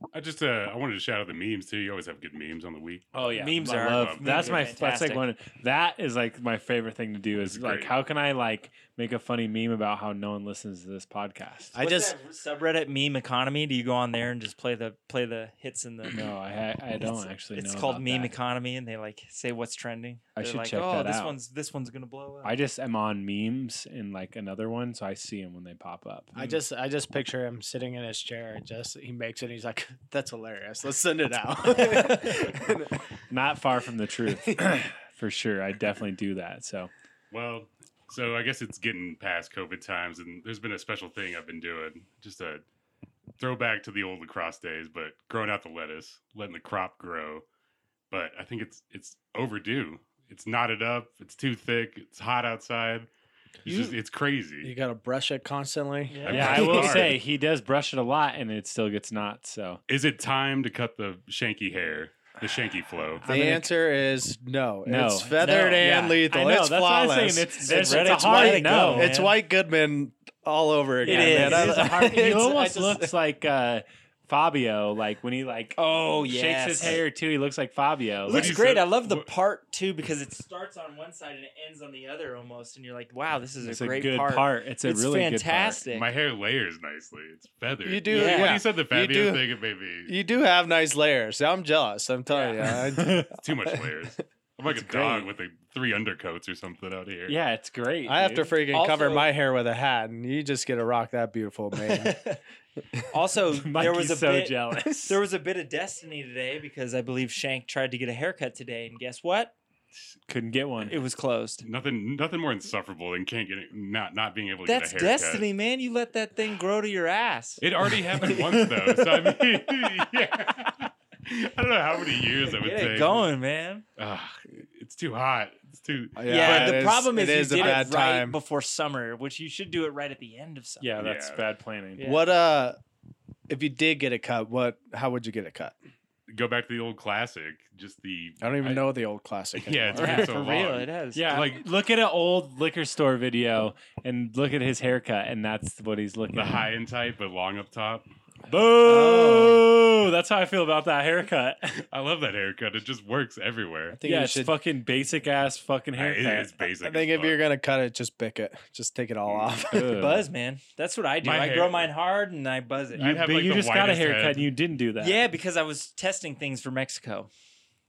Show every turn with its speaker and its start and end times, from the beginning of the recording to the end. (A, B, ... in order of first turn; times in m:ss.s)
0:00.1-0:04.6 A
0:03.1-0:11.8 B
0:03.3-0:05.3 C
0:07.5-0:07.9 A
0:11.7-0:12.1 D
0:11.8-0:16.3 C
0:16.1-0:18.3 B
0:17.0-0:22.5 C
0:20.4-0:21.4 B
0:22.4-0:26.6 B
0:26.3-0:33.0 D
0:33.3-0:36.9 B
0:34.4-0:34.8 D
0:37.3-0:42.6 A
0:43.4-0:47.4 A
0:48.1-0:53.1 A
0:53.6-0:54.7 A
0:53.6-0:54.0 D
0:54.6-0:57.1 D
0:56.1-0:56.8 C
0:56.2-0:57.2 A
0:56.3-0:59.8 B
0:59.9-1:03.2 A
1:03.2-1:03.7 B
1:03.2-1:13.1 D
1:04.8-1:09.1 B
1:05.6-1:05.9 C
1:07.6-1:09.3 C
1:11.0-1:12.2 C
1:11.0-1:18.6 B
1:15.8-1:17.0 C
1:18.2-1:26.1 C
1:18.3-1:19.3 A
1:23.6-1:25.8 B
1:25.9-1:30.1 A
1:27.8-1:29.4 D
1:28.1-1:28.6 C
1:30.1-1:33.9 D
1:32.3-1:32.8 C
1:32.9-1:33.3 B
1:33.3-1:37.4 A
1:34.6-1:35.3 B
1:37.3-1:38.5 B
1:38.0-1:42.2 D
1:38.7-1:39.3 C
1:41.8-1:42.4 C
1:43.1-1:49.6 C
1:43.5-1:45.2 B
1:50.3-1:51.0 B
1:50.9-1:51.6 C
1:51.6-1:55.5 A
1:54.6-1:57.6 C
1:57.6-2:03.3 A
1:58.2-1:58.8 D
2:02.6-2:03.8 C
2:04.0-2:07.0 A
2:06.2-2:08.4 D
2:06.3-2:10.9 C
2:10.8-2:12.0 B
2:11.0-2:11.4 A
2:12.0-2:12.3 C
2:12.0-2:12.8 D
2:13.5-2:15.8 D
2:16.3-2:18.9 A
2:18.4-2:20.5 D
2:19.6-2:21.6 A
2:19.9-2:21.4 C
2:21.1-2:26.7 B
2:26.3-2:28.1 A
2:28.5-2:31.8 B
2:28.9-2:29.5 D
2:31.9-2:34.0 A
2:33.9-2:34.6 D
2:34.0-2:36.5 B
2:35.9-2:37.4 A
2:36.8-2:40.0 D
2:39.3-2:39.6 A
2:39.7-2:40.3 B
2:39.9-2:43.1 C
2:41.2-2:41.9 A
2:42.9-2:44.5 A
2:43.0-2:45.2 B
2:45.0-2:47.3 C